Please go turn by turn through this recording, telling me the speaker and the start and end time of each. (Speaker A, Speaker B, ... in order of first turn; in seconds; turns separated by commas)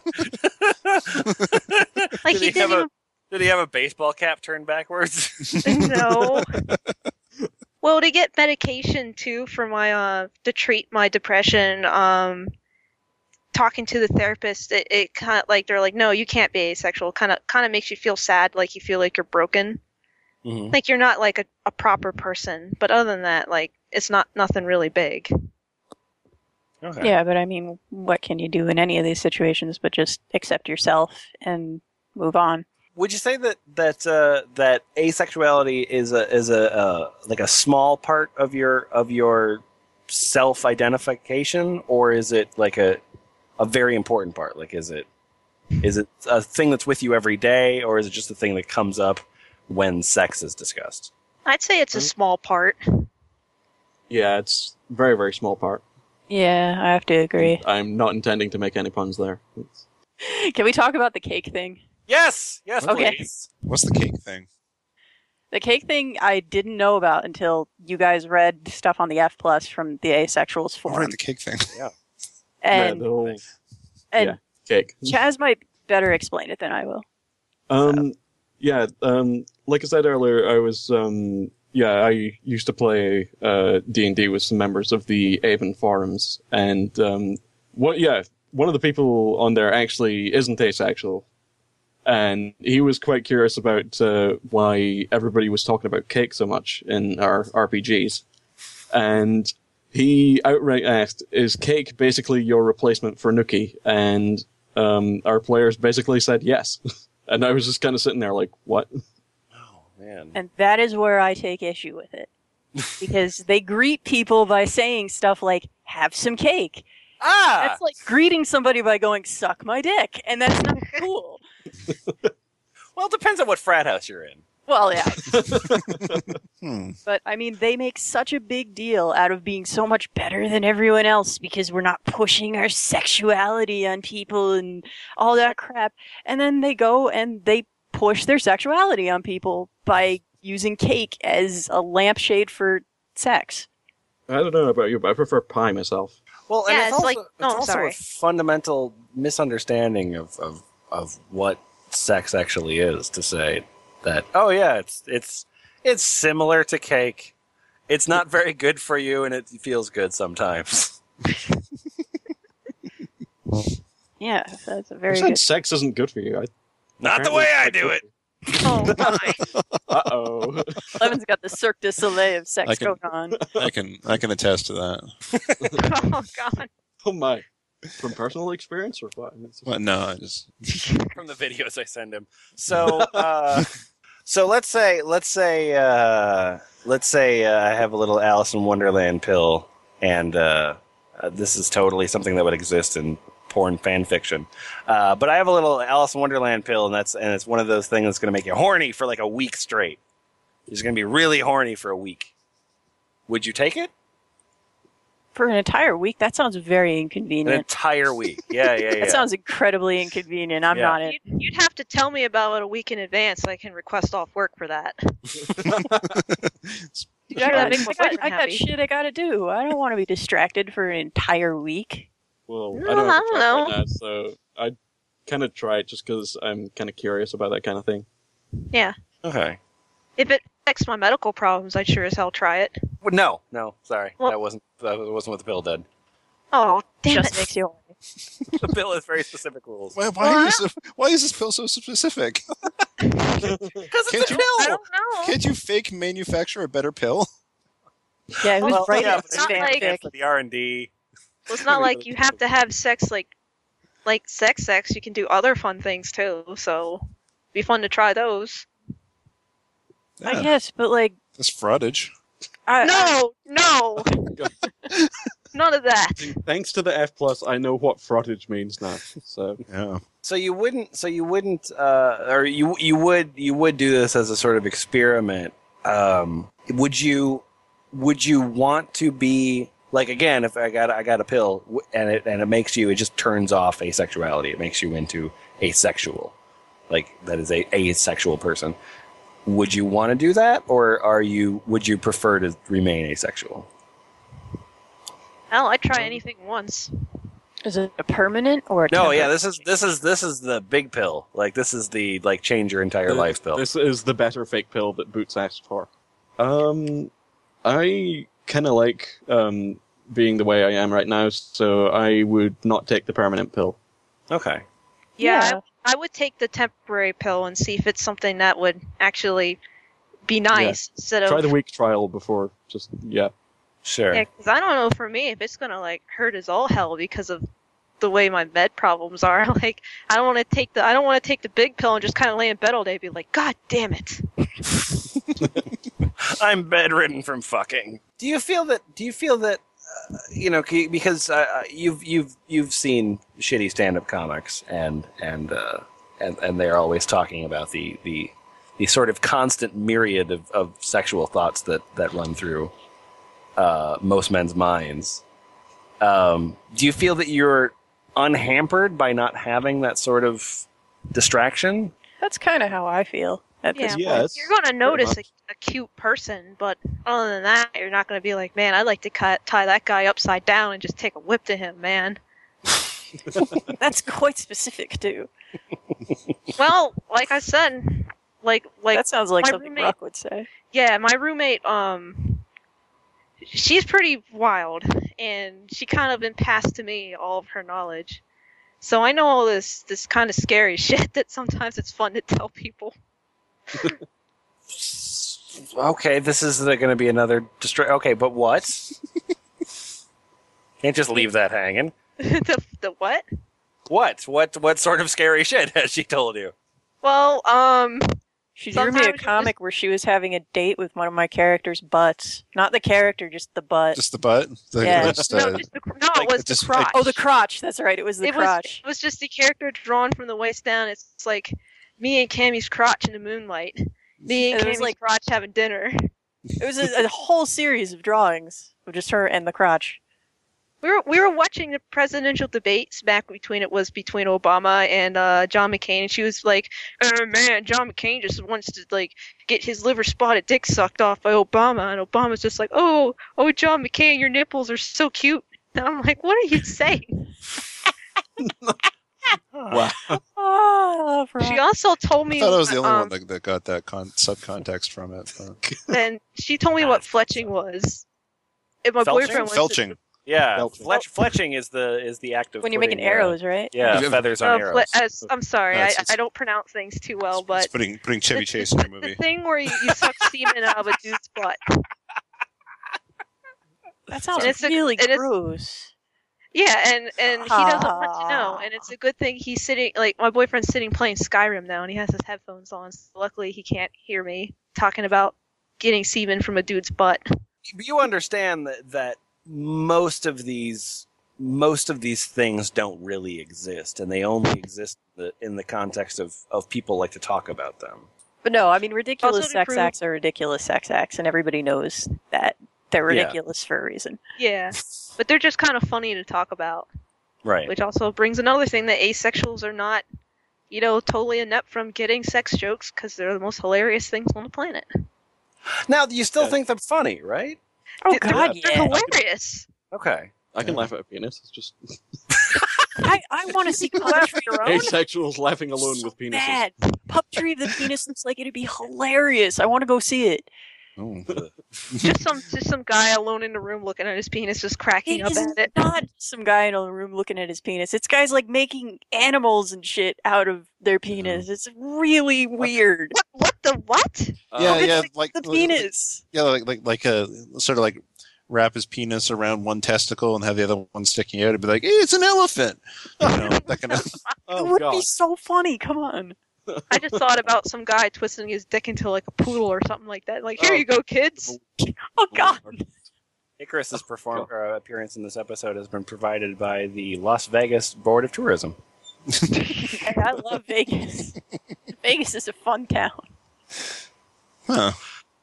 Speaker A: 0.4-6.0, Speaker B: 2.2-2.9, Speaker B: 5.6-6.5, Speaker B: 7.8-12.5, Speaker B: 13.5-19.8, Speaker A: 20.4-20.7, Speaker B: 20.7-25.3, Speaker A: 26.8-27.1, Speaker C: 27.0-32.6, Speaker A: 33.0-43.0, Speaker A: 43.6-45.1, Speaker A: 45.8-51.1, Speaker B: 51.5-53.0, Speaker D: 54.1-55.8, Speaker C: 56.3-57.6, Speaker D: 57.4-59.8, Speaker C: 60.2-61.8, Speaker A: 62.1-63.5, Speaker C: 62.8-63.2, Speaker E: 63.6-64.5, Speaker C: 65.5-71.1, Speaker E: 70.9-71.7, Speaker C: 72.6-73.1, Speaker D: 72.7-73.4, Speaker D: 74.2-75.2, Speaker C: 75.1-77.0, Speaker D: 77.7-91.2, Speaker D: 92.0-98.2, Speaker D: 98.9-108.9, Speaker A: 109.5-110.4, Speaker C: 110.3-112.3, Speaker C: 113.0-116.8, Speaker A: 117.2-117.8, Speaker C: 117.6-121.4, Speaker D: 121.9-122.3, Speaker A: 123.0-124.4, Speaker C: 124.7-125.7, Speaker D: 125.2-126.4, Speaker E: 126.6-127.0, Speaker C: 127.0-143.7, Speaker D: 144.3-146.1, Speaker A: 146.5-157.3, Speaker B: 146.7-148.0, Speaker A: 157.9-161.0, Speaker C: 164.2-165.4, Speaker D: 165.1-166.5, Speaker A: 167.0-168.0, Speaker D: 167.0-168.1, Speaker B: 168.5-169.4, Speaker D: 168.8-169.3, Speaker E: 169.5-169.8, Speaker D: 169.9-171.0, Speaker C: 170.9-173.4, Speaker E: 172.6-173.0, Speaker D: 173.3-173.7, Speaker E: 173.5-175.1, Speaker B: 175.8-176.7, Speaker D: 177.0-177.4, Speaker D: 178.0-179.7, Speaker E: 179.7-180.8, Speaker A: 181.1-183.7, Speaker A: 184.2-200.0, Speaker A: 200.7-202.3, Speaker A: 203.3-203.9, Speaker C: 205.3-207.7, Speaker A: 207.4-209.2, Speaker C: 209.0-211.2, Speaker A: 210.7-211.0, Speaker B: 211.0-215.2, Speaker D: 215.4-216.2, Speaker E: 215.7-217.1, Speaker B: 217.3-218.7, Speaker C: 217.4-222.1, Speaker D: 222.5-228.1, Speaker B: 222.7-223.8, Speaker A: 229.2-229.6, Speaker B: 230.2-232.8, Speaker A: 233.0-235.8, Speaker B: 236.5-237.5, Speaker C: 237.1-237.9, Speaker A: 238.6-240.0, Speaker E: 239.9-242.4, Speaker B: 240.2-240.6, Speaker D: 243.4-243.9, Speaker A: 243.9-244.8, Speaker E: 244.1-244.5, Speaker B: 244.3-245.4, Speaker E: 245.2-247.3, Speaker C: 248.4-250.1, Speaker A: 248.6-250.9, Speaker B: 248.6-249.9, Speaker B: 251.5-253.3, Speaker B: 254.0-257.0, Speaker B: 257.5-258.7, Speaker E: 260.2-260.5, Speaker C: 260.2-261.1, Speaker E: 261.4-262.1, Speaker C: 262.7-263.2, Speaker B: 262.8-264.3, Speaker B: 265.5-266.4, Speaker D: 266.2-269.6, Speaker E: 269.7-270.0, Speaker A: 270.2-286.3, Speaker A: 286.9-288.8, Speaker A: 289.4-293.7, Speaker B: 295.5-296.9, Speaker C: 297.6-299.4, Speaker A: 298.9-303.6, Speaker D: 303.1-305.9, Speaker D: 306.4-307.1, Speaker D: 307.6-313.8, Speaker A: 314.3-314.6, Speaker B: 315.2-319.6, Speaker C: 315.2-315.6, Speaker B: 320.3-321.5, Speaker D: 320.5-323.3, Speaker A: 323.8-324.2, Speaker B: 324.1-327.4, Speaker B: 328.0-334.4, Speaker A: 336.2-352.7, Speaker A: 353.6-355.2, Speaker A: 356.0-361.9, Speaker C: 362.2-364.3, Speaker B: 363.7-372.2, Speaker D: 363.9-365.2, Speaker C: 373.8-375.3, Speaker B: 376.5-379.9, Speaker C: 378.9-380.5, Speaker B: 380.7-382.4, Speaker B: 383.4-388.2, Speaker B: 388.8-392.9, Speaker A: 394.7-398.9, Speaker A: 400.8-401.9, Speaker B: 402.2-403.2, Speaker A: 403.9-406.5, Speaker B: 407.0-408.1, Speaker C: 408.6-414.0, Speaker B: 408.7-409.5, Speaker E: 413.9-417.2, Speaker C: 414.8-415.3, Speaker B: 415.2-417.1, Speaker C: 416.9-418.8, Speaker B: 418.2-426.1, Speaker C: 424.5-424.9, Speaker C: 426.6-430.0, Speaker B: 430.8-447.3, Speaker D: 448.4-448.8, Speaker A: 449.5-449.9, Speaker D: 449.7-450.2, Speaker C: 450.1-451.6, Speaker B: 451.4-453.1, Speaker E: 452.4-455.6, Speaker D: 455.6-455.9, Speaker B: 455.9-458.0, Speaker B: 458.8-459.9, Speaker A: 459.0-459.5, Speaker E: 459.4-460.0, Speaker A: 460.2-464.9, Speaker D: 460.6-460.9, Speaker C: 462.6-463.8, Speaker E: 463.9-464.2, Speaker B: 464.4-467.7, Speaker E: 465.7-466.1, Speaker E: 467.3-469.2, Speaker B: 468.3-471.6, Speaker C: 474.1-475.9, Speaker B: 474.4-475.2, Speaker B: 476.5-487.2, Speaker C: 477.4-478.8, Speaker A: 487.7-498.1, Speaker C: 498.4-504.2, Speaker B: 499.2-499.9, Speaker A: 503.1-503.4, Speaker B: 504.4-506.9, Speaker A: 507.4-507.7, Speaker B: 507.7-510.0, Speaker B: 510.7-514.9, Speaker A: 515.9-517.6, Speaker C: 518.1-519.0, Speaker B: 518.1-519.7, Speaker A: 519.9-520.3, Speaker D: 520.5-522.6, Speaker E: 520.6-520.9, Speaker C: 523.0-525.0, Speaker B: 524.0-524.9, Speaker D: 524.6-526.6, Speaker C: 526.0-530.5, Speaker E: 531.0-531.3, Speaker B: 532.0-535.7, Speaker C: 535.1-543.1, Speaker E: 541.1-541.4, Speaker B: 543.1-544.4, Speaker D: 544.5-545.0, Speaker E: 544.6-554.1, Speaker C: 544.6-546.2, Speaker B: 553.3-554.2, Speaker D: 554.5-555.1, Speaker C: 554.5-556.3, Speaker D: 556.7-557.2, Speaker B: 556.9-561.5, Speaker D: 560.6-560.8, Speaker C: 561.8-562.8, Speaker D: 562.3-562.8, Speaker A: 563.6-568.8, Speaker C: 569.7-571.4, Speaker C: 572.0-573.2, Speaker E: 574.7-575.0